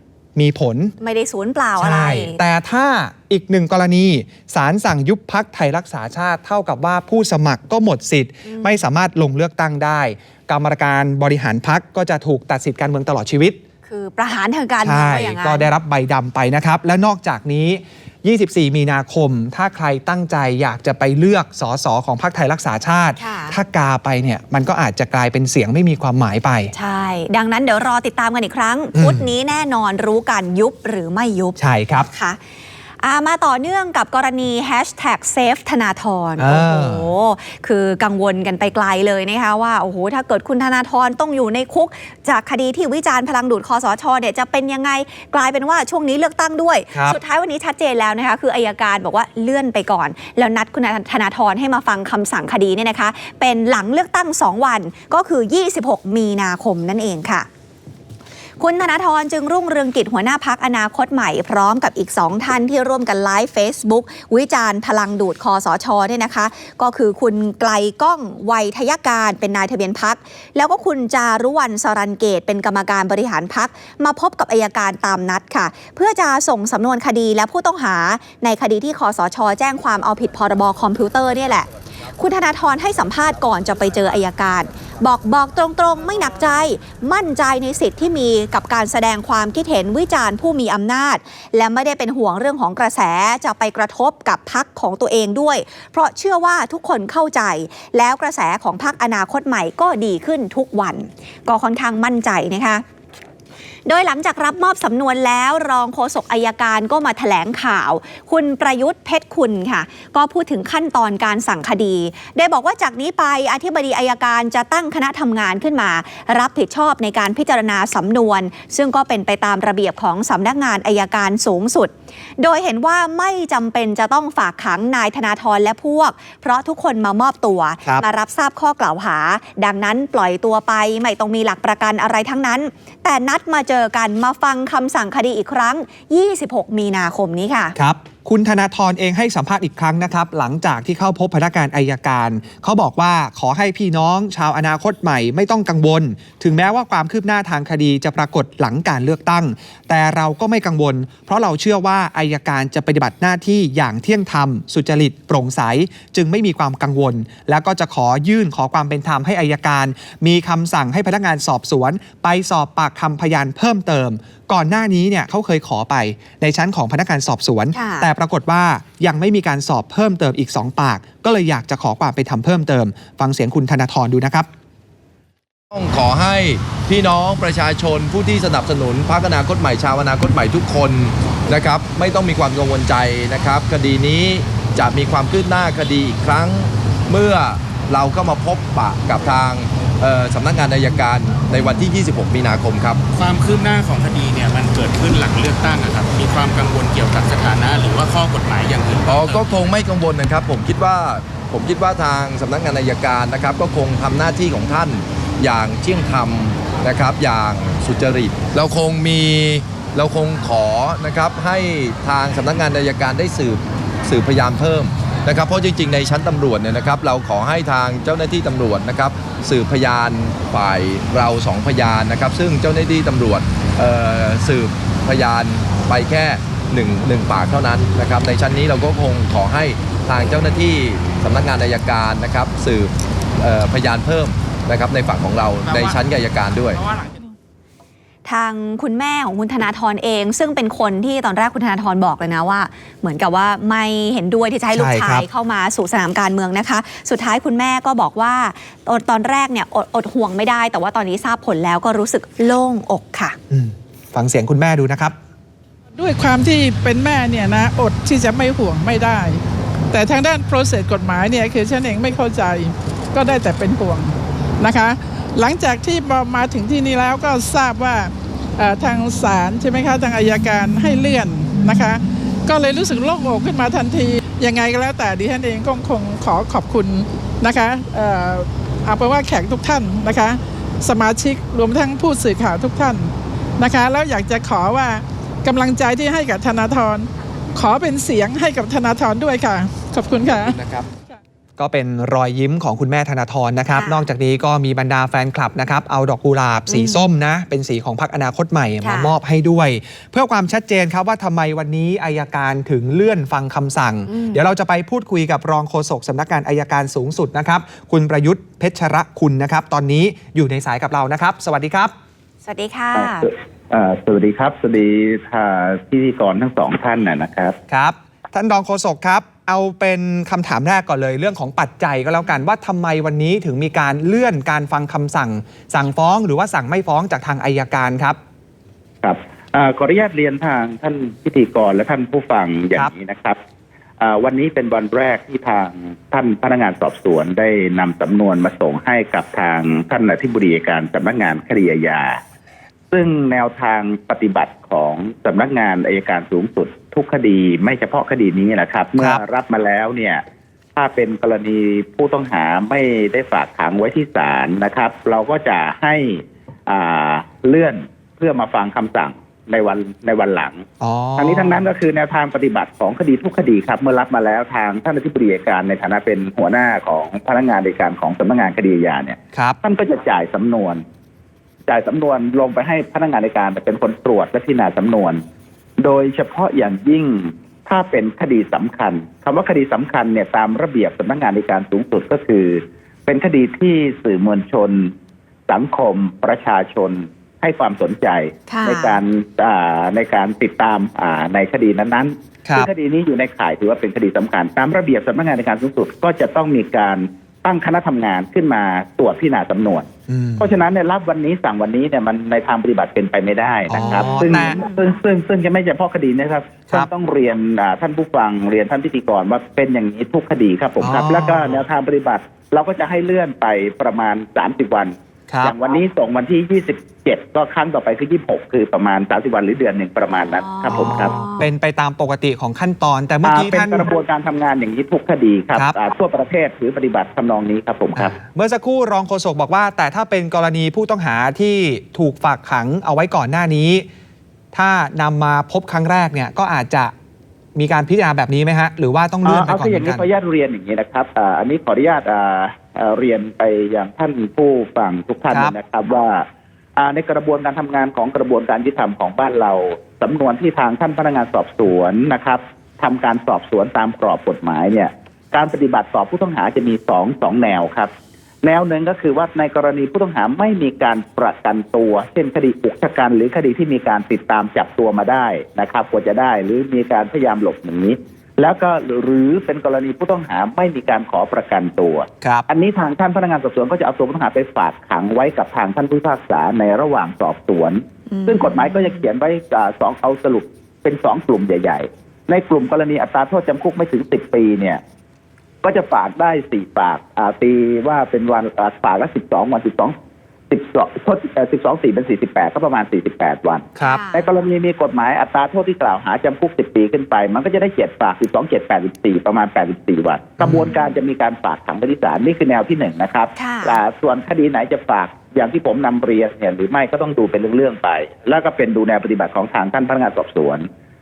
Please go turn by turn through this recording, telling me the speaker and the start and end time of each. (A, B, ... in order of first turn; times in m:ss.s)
0:00.4-0:01.0 A
0:01.0-0:02.4 B
0:01.8-0:13.6 A
0:08.4-0:08.8 B
0:13.9-0:15.7 B
0:14.8-0:26.7 A
0:23.2-0:23.6 B
0:26.7-0:32.4 B
0:29.0-0:29.3 A
0:31.6-0:32.1 A
0:33.0-0:57.5 B
0:36.4-0:37.1 A
0:46.9-0:47.2 A
0:58.6-1:42.8 B
1:43.9-2:17.8 B
2:17.8-2:54.5 A
2:47.7-2:48.1 B
2:55.7-3:13.0 C
3:13.1-3:19.6 D
3:19.0-3:56.8 C
3:55.7-3:56.0 D
3:56.7-3:57.3 D
3:58.2-4:13.4 B
4:04.7-4:05.3 A
4:13.5-4:15.2 A
4:16.0-4:19.4 E
4:19.9-4:50.6 E
4:50.5-4:50.8 C
4:51.6-5:11.9 A
4:53.7-4:54.1 B
4:56.7-4:57.0 B
4:58.8-4:59.1 B
5:04.1-5:04.4 B
5:12.4-5:13.3 B
5:13.0-5:17.6 F
5:17.7-5:28.2 A
5:29.0-5:33.4 F
5:34.0-5:42.2 F
5:42.9-5:50.2 F
5:50.8-6:00.6 F
6:00.8-6:01.7 A
6:01.2-6:10.8 F
6:11.7-6:15.2 F
6:15.8-6:24.9 F
6:25.5-6:39.9 F
6:28.5-6:29.0 B
6:40.1-6:40.5 A
6:40.4-7:01.2 F
6:43.7-6:44.6 A
6:43.9-6:44.7 B
6:50.8-6:51.6 A
7:00.3-7:01.5 B
7:00.7-7:03.9 A
7:03.2-7:08.2 F
7:08.0-7:13.9 A
7:14.5-7:16.9 A
7:17.6-7:20.1 A
7:19.2-7:26.2 F
7:26.8-7:37.9 F
7:38.4-8:04.8 F
7:58.1-7:59.1 B
8:05.6-8:10.0 F
8:10.5-8:30.6 F
8:13.8-8:14.0 A
8:13.8-8:14.3 B
8:20.4-8:20.7 A
8:20.7-8:20.9 B
8:23.4-8:23.8 B